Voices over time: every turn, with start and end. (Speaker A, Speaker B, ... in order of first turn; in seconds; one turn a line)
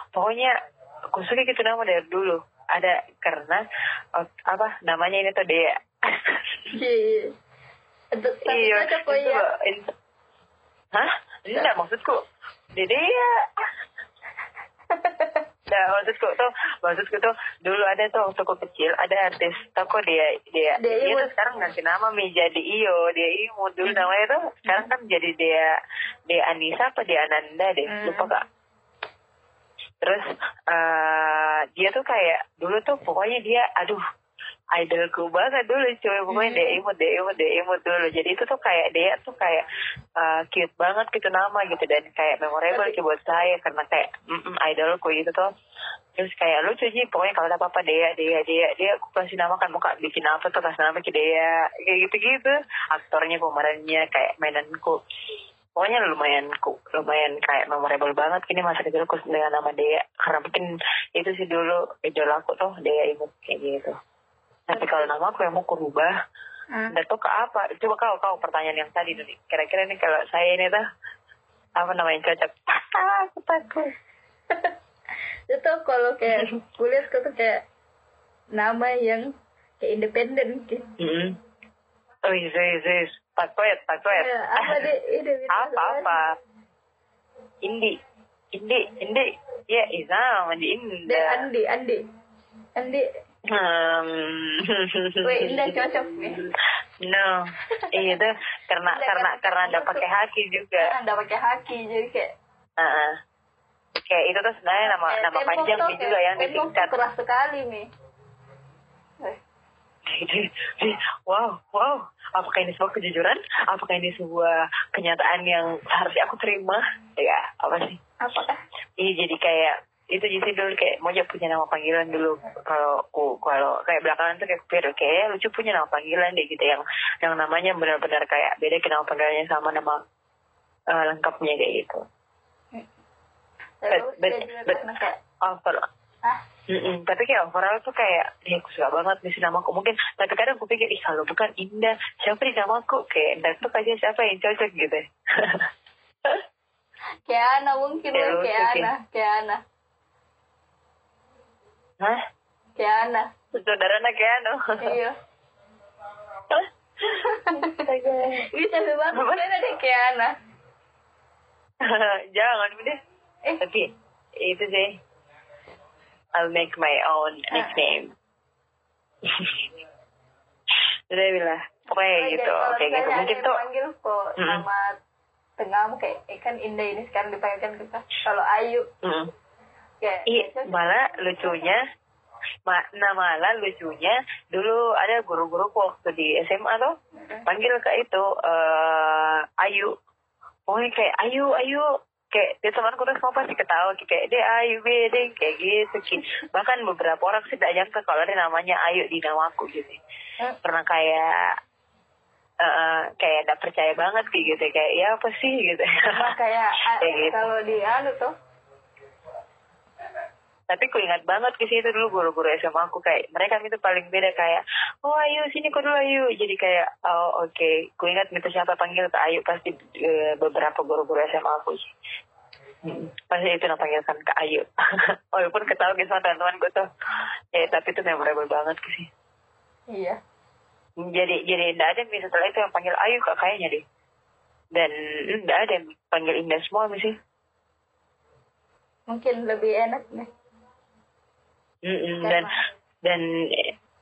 Speaker A: 0.1-0.5
Speaker A: 1.1-3.6
Speaker A: 4.2-6.6
Speaker B: 6.7-7.3
Speaker B: 8.1-9.4
Speaker A: 8.5-9.9
Speaker A: 10.9-12.2
Speaker A: 12.7-13.3
Speaker B: 14.9-15.4
Speaker A: 15.7-25.7
Speaker B: 20.8-21.3
Speaker B: 23.8-24.1
Speaker A: 26.3-28.4
Speaker B: 27.9-28.3
Speaker A: 30.0-34.0
Speaker A: 34.7-39.6
Speaker B: 36.3-36.8
Speaker A: 40.2-45.5
Speaker B: 42.7-43.0
Speaker A: 46.2-55.0
Speaker A: 55.8-63.9
Speaker A: 64.7-66.2
Speaker B: 64.7-65.0
Speaker B: 66.7-67.0
Speaker A: 66.9-70.8
Speaker A: 71.8-73.9
Speaker B: 75.5-77.6
Speaker B: 78.5-79.3
Speaker B: 79.8-80.9
Speaker A: 81.0-81.4
Speaker A: 82.3-84.9
Speaker B: 84.1-86.2
Speaker A: 85.5-86.2
Speaker A: 87.6-88.0
Speaker A: 88.5-91.5
Speaker B: 91.1-92.0
Speaker B: 92.8-93.1
Speaker A: 93.5-95.8
Speaker B: 95.2-96.4
Speaker A: 97.0-100.9
Speaker B: 97.8-98.1
Speaker B: 98.9-100.0
Speaker B: 100.8-102.3
Speaker A: 102.8-103.2
Speaker A: 104.1-106.9
Speaker B: 104.8-107.9
Speaker A: 110.1-118.0
Speaker B: 118.2-118.6
Speaker A: 119.0-130.0
Speaker A: 130.9-132.0
Speaker B: 133.8-135.2
Speaker A: 133.9-134.8
Speaker A: 135.4-135.8
Speaker A: 136.7-145.7
Speaker B: 147.3-149.6
Speaker A: 148.1-148.9
Speaker B: 152.8-153.3
Speaker A: 153.5-155.0
Speaker B: 154.8-155.1
Speaker A: 156.5-158.4
Speaker B: 157.1-157.8
Speaker B: 158.5-160.3
Speaker A: 159.1-159.4
Speaker A: 161.8-163.0
Speaker A: 163.6-165.0
Speaker A: 166.3-168.1
Speaker B: 167.5-167.8
Speaker A: 169.2-169.6
Speaker A: 171.1-173.6
Speaker B: 172.1-174.9
Speaker A: 174.4-174.7
Speaker B: 175.6-178.9
Speaker A: 179.0-179.3
Speaker B: 180.0-180.8
Speaker A: 180.3-181.8
Speaker A: 182.7-186.9
Speaker B: 187.2-187.5
Speaker A: 187.4-189.9
Speaker A: 190.7-200.0
Speaker A: 200.6-201.5
Speaker A: 202.6-206.3
Speaker B: 206.1-208.3
Speaker A: 207.0-207.5
Speaker A: 210.7-221.9
Speaker A: 222.8-224.7
Speaker A: 225.3-226.9
Speaker A: 227.5-229.1
Speaker B: 229.9-230.2
Speaker A: 231.0-233.8
Speaker A: 234.7-237.2
Speaker B: 239.1-240.3
Speaker A: 241.8-242.5
Speaker B: 242.2-242.6
Speaker A: 243.1-243.7